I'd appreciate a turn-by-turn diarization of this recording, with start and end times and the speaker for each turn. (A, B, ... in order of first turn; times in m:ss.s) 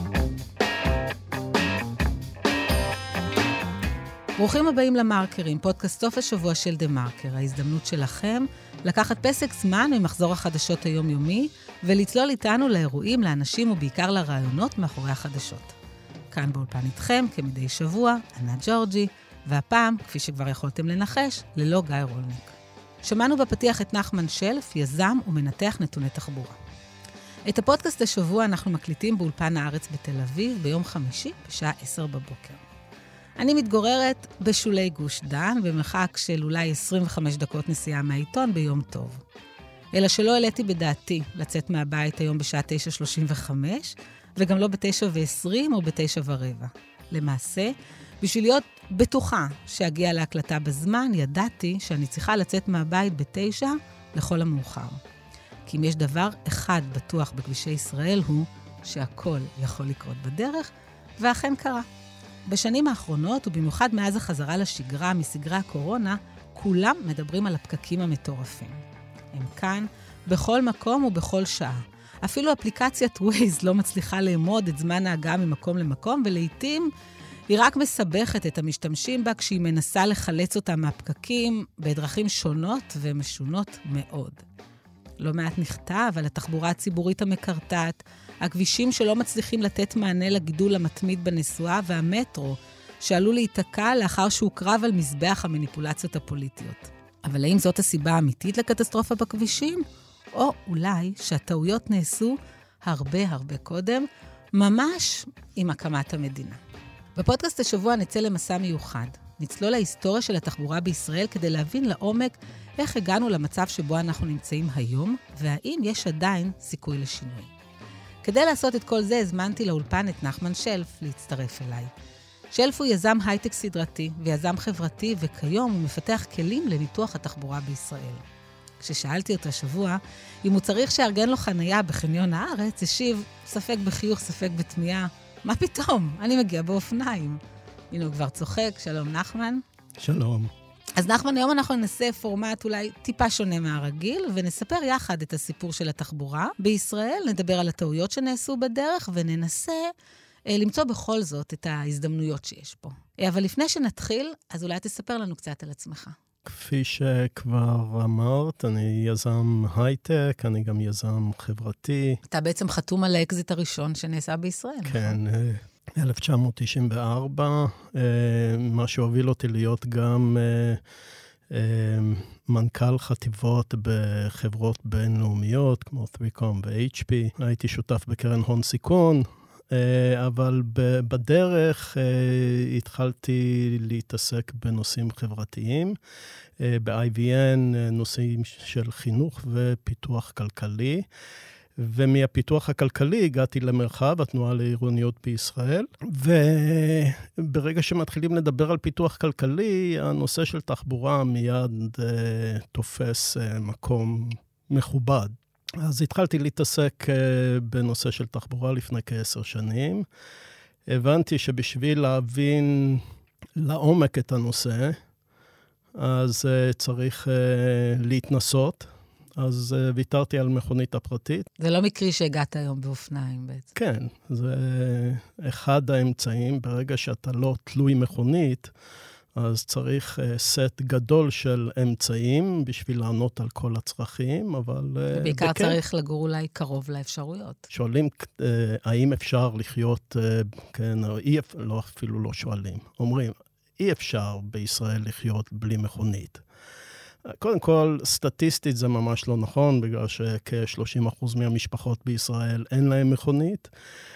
0:04.4-0:15.7 A
0:16.3-0:26.6 A
0:27.5-0:32.6 A
0:33.4-0:39.2 A
0:39.9-0:55.0 A
0:55.6-1:01.9 A
1:02.5-1:08.8 A
1:09.3-1:16.9 A
1:17.5-1:24.4 A
1:25.2-1:46.6 A
1:47.2-1:57.5 A
1:58.2-2:01.9 A
2:02.5-2:08.2 A
2:08.8-2:17.4 A
2:17.9-2:19.6 A
2:20.0-2:20.5 B
2:21.0-2:29.9 A
2:30.5-2:36.1 A
2:36.4-2:42.2 B
2:42.3-2:45.2 A
2:44.8-2:50.8 B
2:51.5-3:06.0 B
3:06.6-3:11.1 B
3:11.8-3:30.0 B
3:30.9-3:33.0 B
3:33.6-3:35.0 B
3:35.9-3:41.5 B
3:41.6-3:43.7 A
3:43.7-3:48.7 B
3:49.3-3:55.8 B
3:55.1-3:57.6 A
3:57.7-4:06.4 B
4:07.2-4:13.7 B